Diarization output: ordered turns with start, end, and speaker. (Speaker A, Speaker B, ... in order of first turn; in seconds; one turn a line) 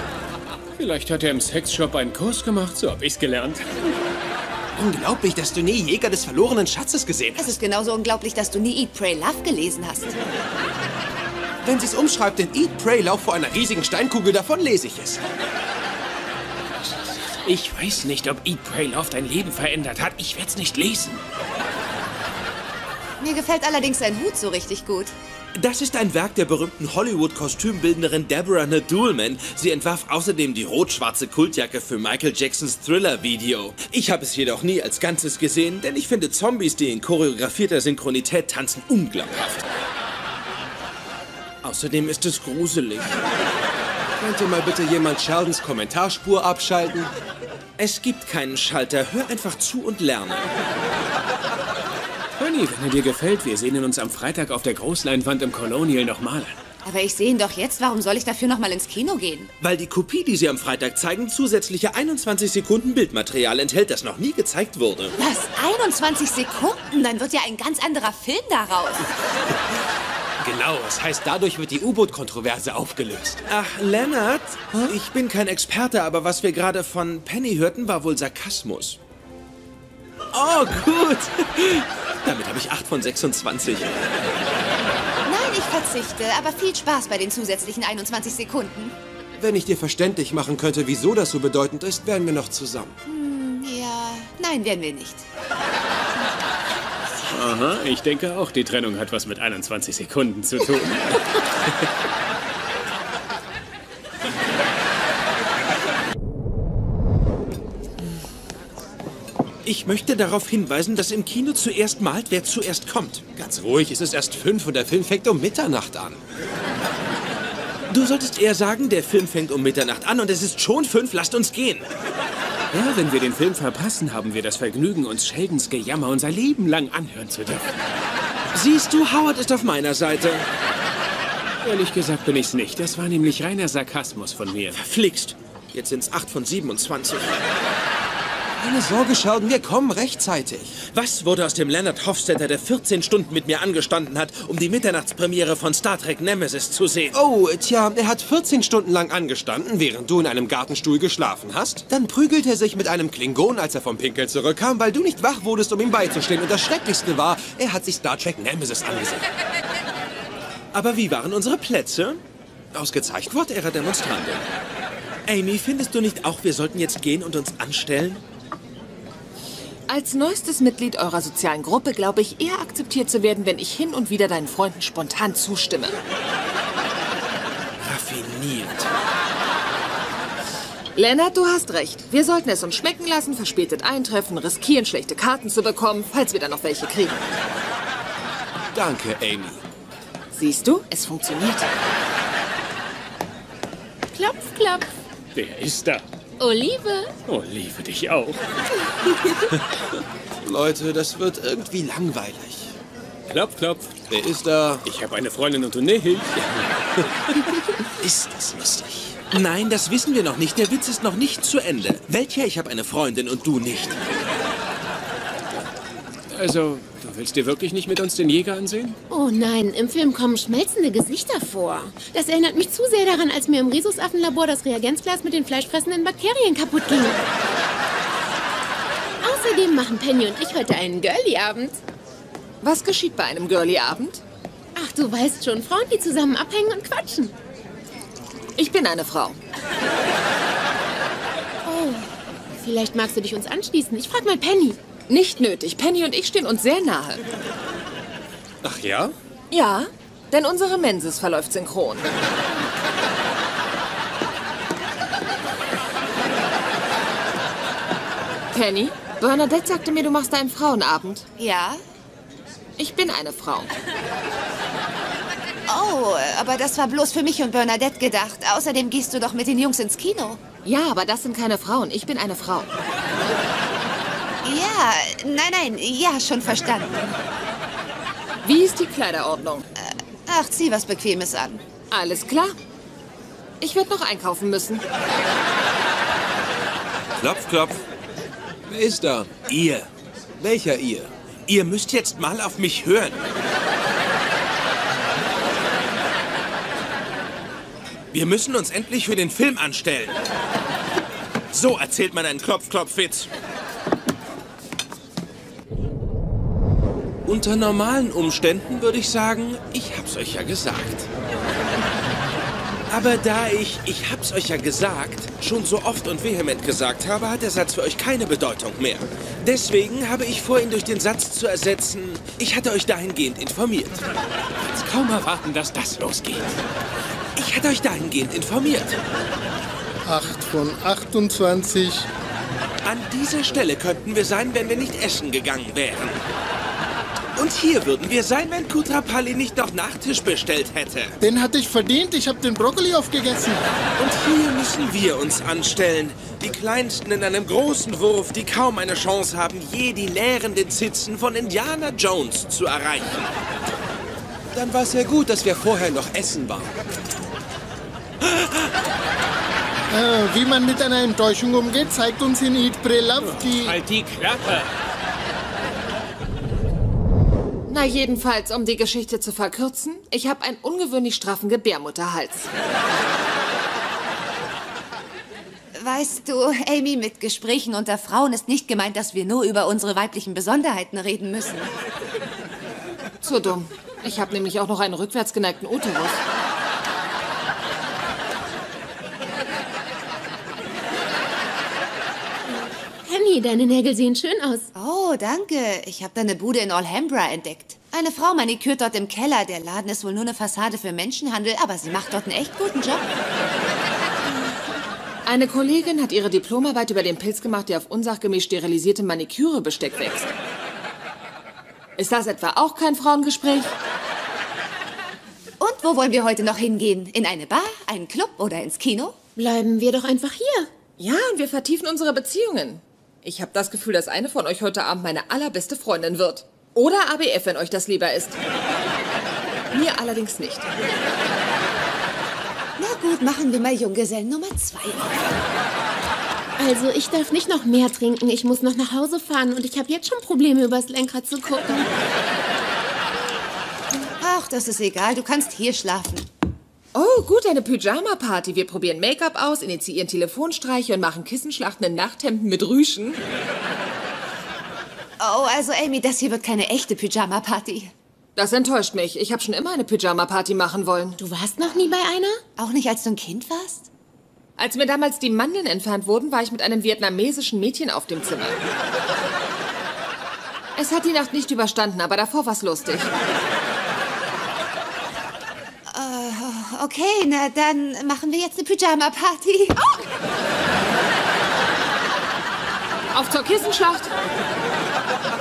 Speaker A: 0.8-3.6
Speaker B: 4.8-7.5
Speaker C: 7.4-10.2
Speaker B: 11.6-15.2
Speaker A: 16.9-21.2
Speaker C: 23.2-25.1
Speaker D: 25.5-39.6
Speaker D: 41.6-43.1
Speaker B: 44.2-47.1
Speaker D: 47.8-50.5
Speaker A: 52.4-56.6
Speaker C: 56.8-59.5
Speaker D: 59.6-65.1
Speaker C: 65.2-69.1
Speaker A: 70.4-73.4
Speaker D: 73.5-79.0
Speaker D: 80.3-83.9
Speaker C: 85.2-89.0
Speaker B: 89.4-93.0
Speaker C: 93.0-95.2
Speaker A: 97.3-101.4
Speaker D: 109.7-113.2
Speaker B: 113.3-116.2
Speaker D: 117.9-121.8
Speaker A: 122.7-127.7
Speaker D: 128.5-130.4
Speaker A: 131.6-134.8
Speaker D: 134.7-137.3
Speaker B: 138.6-140.8
Speaker D: 140.8-147.2
Speaker B: 147.1-159.2
Speaker D: 160.7-162.2
Speaker B: 162.7-164.4
Speaker D: 165.3-168.2
Speaker E: 169.9-175.9
Speaker D: 177.8-178.9
Speaker E: 180.9-187.2
Speaker B: 188.8-189.6
Speaker E: 190.3-191.7
Speaker F: 194.1-194.9
Speaker A: 195.3-196.0
Speaker F: 196.4-197.1
Speaker A: 197.3-198.4
Speaker B: 200.4-202.7
Speaker A: 203.3-203.9
Speaker B: 204.1-204.8
Speaker A: 204.8-206.4
Speaker B: 208.0-209.2
Speaker D: 209.3-214.0
Speaker A: 216.3-219.0
Speaker F: 219.1-227.2
Speaker F: 229.2-231.8
Speaker E: 232.6-234.2
Speaker F: 234.8-237.3
Speaker E: 238.6-239.4
Speaker F: 241.7-242.0
Speaker F: 242.6-244.8
Speaker E: 245.1-247.2
Speaker B: 248.6-249.1
Speaker E: 249.5-252.1
Speaker E: 258.5-261.2
Speaker C: 261.4-261.8
Speaker E: 262.8-263.7
Speaker C: 265.7-270.4
Speaker E: 270.6-272.7
Speaker C: 274.4-277.0
Speaker E: 278.4-279.6
Speaker C: 279.8-281.6
Speaker E: 281.9-282.6
Speaker E: 283.6-284.8
Speaker D: 287.2-287.8
Speaker B: 288.7-289.3
Speaker D: 289.3-289.9
Speaker B: 290.4-291.1
Speaker D: 291.5-293.2
Speaker D: 298.1-300.2
Speaker D: 301.5-303.3
Speaker D: 307.2-311.1
Speaker D: 312.9-324.0
Speaker A: 324.7-326.5
Speaker D: 327.4-329.0
Speaker G: 330.1-332.1
Speaker D: 332.8-336.2
Speaker D: 337.4-341.2
Speaker G: 341.2-343.6
Speaker D: 344.0-353.3
Speaker B: 354.5-356.7
Speaker G: 359.9-363.8
Speaker A: 363.3-364.7
Speaker E: 367.7-372.5
Speaker C: 375.7-381.7
Speaker E: 383.2-386.2
Speaker F: 393.1-394.7
Speaker C: 394.8-403.1
Speaker E: 405.2-410.3
Speaker E: 412.0-413.7
Speaker C: 415.6-419.2
Speaker F: 419.4-420.7
Speaker E: 421.0-428.4
Speaker E: 429.7-430.6
Speaker C: 432.8-435.3
Speaker F: 436.6-441.9
Speaker C: 444.2-446.3
Speaker E: 446.9-453.2
Speaker C: 455.2-457.9
Speaker E: 458.4-461.2
Speaker F: 461.2-462.4
Speaker C: 462.6-463.9
Speaker E: 464.6-468.6
Speaker E: 470.8-473.1
Speaker C: 475.9-480.0
Speaker E: 483.1-484.1